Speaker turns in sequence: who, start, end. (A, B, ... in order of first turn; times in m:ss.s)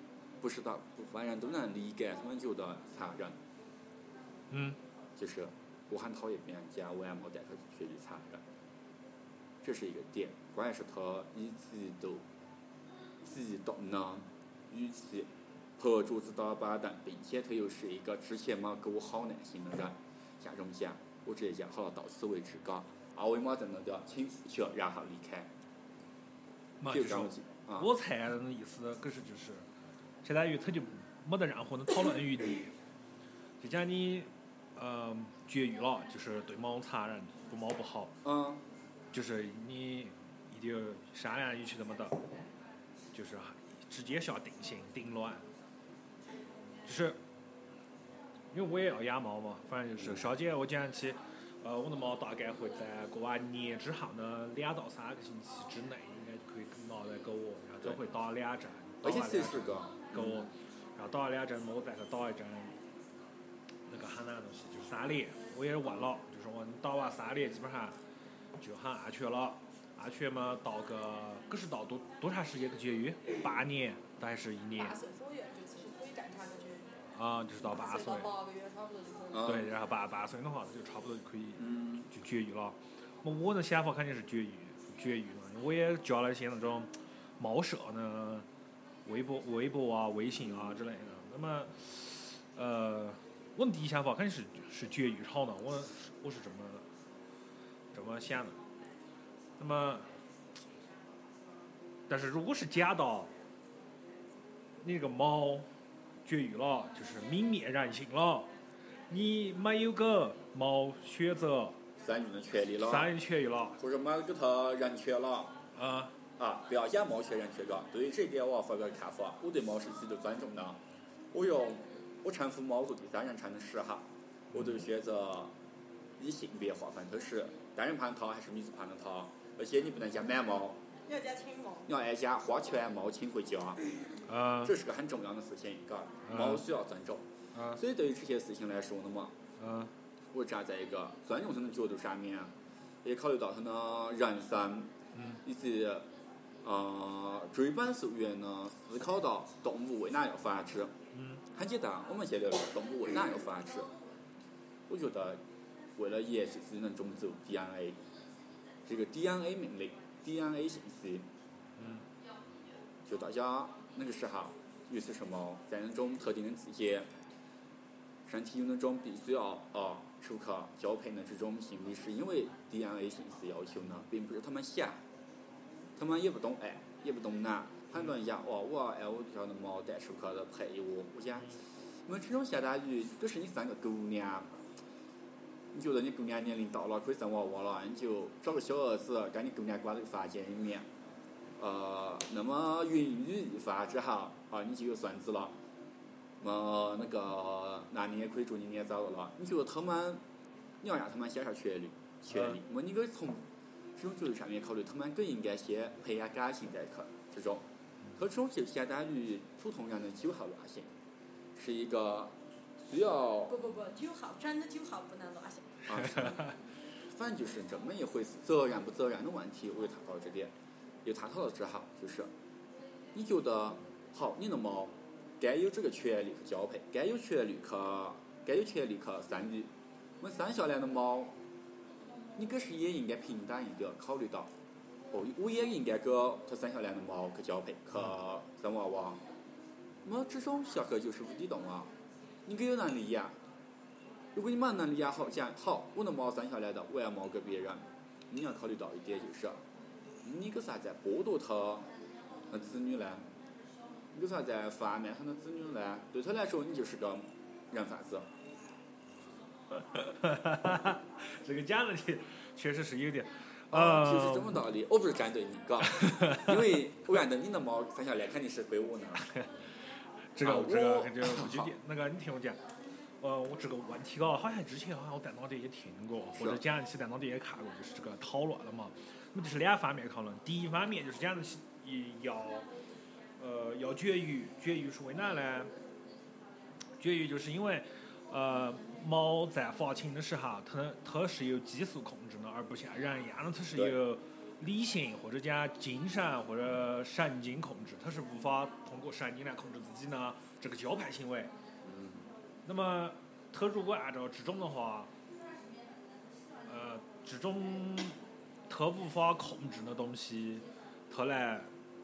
0:00.4-0:03.4 A
0:04.5-0:04.8 B
0:05.2-0:08.4 A
0:09.6-0:12.2 A
0:13.2-0:25.5 A
0:26.8-0:29.6 B
0:26.9-0:27.9 A
0:30.2-0:32.7 B
0:33.6-0:38.2 B
0:38.2-0:38.6 A
0:39.1-0:42.2 B
0:43.1-0:45.4 B
0:46.8-0:47.2 B
0:48.5-1:02.8 B
0:50.0-0:50.2 A
0:59.0-1:00.5 A
1:03.9-1:08.0 B
1:05.8-1:06.1 A
1:08.6-1:15.0 B
1:14.8-1:17.0 C
1:17.1-1:18.3 B
1:17.6-1:19.6 C
1:19.3-1:19.7 A
1:19.4-1:28.5 B
1:21.6-1:22.1 A
1:29.1-1:36.9 B
1:30.4-1:30.8 A
1:37.9-1:38.6 B
1:39.6-1:40.1 B
1:42.1-1:43.3 B
1:44.8-1:45.7 B
1:46.2-1:48.5 B
1:49.1-1:51.8 B
1:52.0-1:53.1 A
1:52.8-1:53.8 B
1:53.8-1:55.5 A
1:55.8-1:56.2 B
1:56.4-2:00.8 A
2:01.3-2:05.5 A
2:04.5-2:04.8 B
2:06.2-2:10.8 A
2:11.1-2:11.9 C
2:11.9-2:13.8 A
2:14.3-2:14.8 B
2:14.6-2:19.4 A
2:16.3-2:16.6 B
2:17.5-2:17.8 B
2:19.6-2:19.9 B
2:20.3-2:22.5 A
2:23.0-2:24.9 A
2:25.2-2:25.4 B
2:25.4-2:26.1 A
2:26.6-2:31.0 A
2:31.1-2:31.4 B
2:31.5-2:33.9 A
2:34.9-2:35.4 A
2:36.0-2:38.0 A
2:38.9-2:41.3 A
2:41.8-2:42.0 B
2:43.0-2:47.1 A
2:48.3-2:55.0 A
2:56.0-3:04.5 A
3:05.7-3:10.9 A
3:11.6-3:15.6 A
3:16.4-3:20.2 A
3:20.8-3:23.4 A
3:22.3-3:22.6 B
3:24.0-3:30.9 A
3:31.6-3:33.6 A
3:33.5-3:35.9 C
3:35.9-3:36.5 A
3:36.0-3:36.5 B
3:37.1-3:40.5 A
3:41.0-3:42.3 A
3:43.1-3:51.4 A
3:52.4-3:54.5 A
3:55.1-3:59.2 A
4:00.0-4:01.9 A
4:02.5-4:03.4 A
4:04.3-4:09.6 A
4:10.2-4:11.9 A
4:12.5-4:13.3 A
4:14.1-4:18.3 A
4:19.7-4:24.6 B
4:23.7-4:29.3 A
4:25.8-4:26.7 B
4:29.2-4:29.5 B
4:30.4-4:32.6 B
4:30.4-4:31.7 A
4:33.2-4:42.7 B
4:36.4-4:36.6 A
4:43.4-4:45.7 B
4:47.0-5:01.5 B
5:01.8-5:02.3 A
5:02.6-5:05.1 B
5:06.7-5:11.7 B